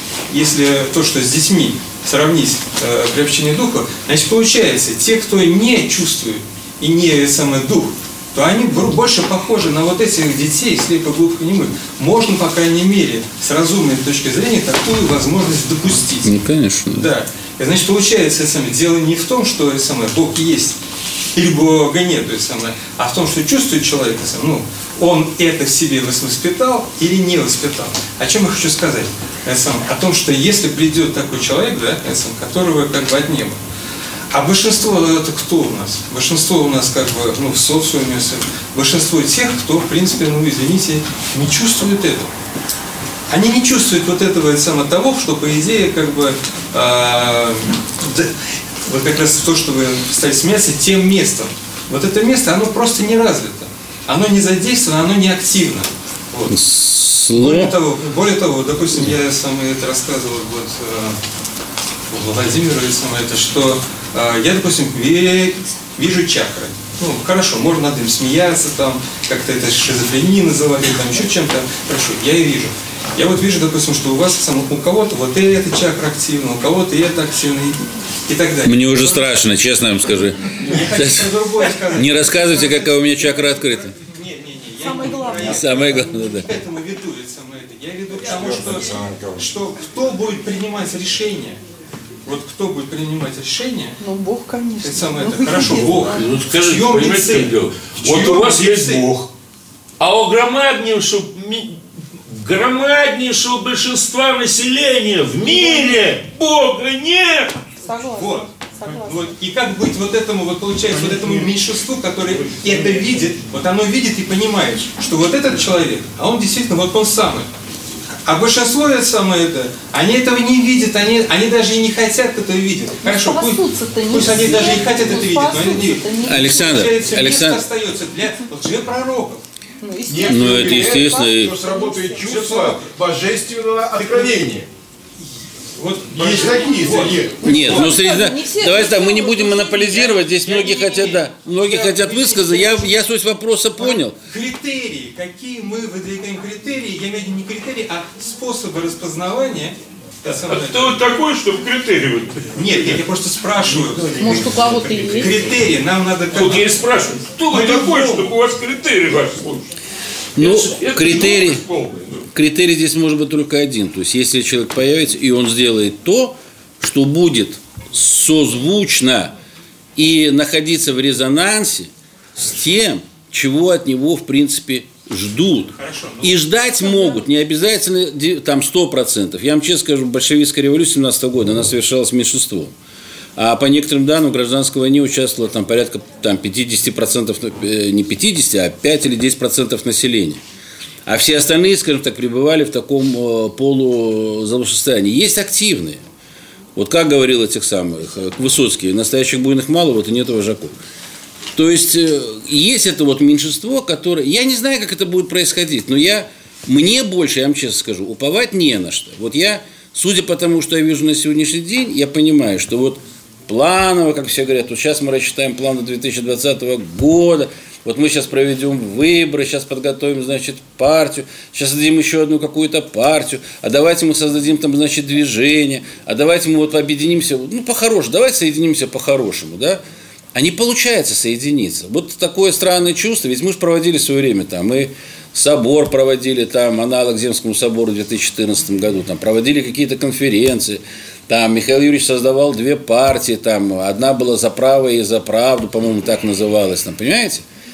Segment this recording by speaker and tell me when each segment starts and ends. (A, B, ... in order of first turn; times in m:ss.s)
0:00.3-0:16.4 A
0:16.2-0:17.1 B
0:16.9-0:20.8 A
0:21.3-0:33.6 A
0:34.3-0:42.3 A
0:43.3-0:56.6 A
0:56.5-0:57.7 B
0:57.3-1:01.2 A
1:02.1-1:19.4 A
1:18.6-1:23.9 B
1:20.6-1:31.6 A
1:24.8-1:25.6 C
1:25.4-1:26.5 B
1:28.2-1:29.4 D
1:32.2-1:34.0 A
1:34.0-1:36.4 C
1:34.8-1:39.1 A
1:36.2-1:39.3 E
1:40.0-1:47.5 E
1:45.5-1:46.0 C
1:47.8-1:49.3 C
1:48.1-1:57.5 A
1:58.2-2:09.4 A
2:03.0-2:07.1 C
2:06.2-2:07.6 B
2:09.8-2:12.2 C
2:10.1-2:14.7 D
2:10.2-2:11.6 B
2:12.1-2:12.9 A
2:15.8-2:18.0 A
2:16.1-2:17.6 D
2:17.4-2:21.2 C
2:17.4-2:24.2 B
2:21.6-2:22.7 A
2:24.2-2:31.0 A
2:30.4-2:33.0 E
2:32.5-2:36.8 A
2:34.1-2:35.6 C
2:36.3-2:39.7 E
2:37.5-2:38.3 A
2:40.4-2:41.6 B
2:40.4-2:42.3 E
2:42.3-2:49.3 B
2:50.0-3:02.7 B
2:55.8-2:56.4 A
3:03.4-3:10.4 B
3:11.0-3:16.0 B
3:16.8-3:20.8 B
3:21.5-3:49.8 B
3:50.3-4:07.4 B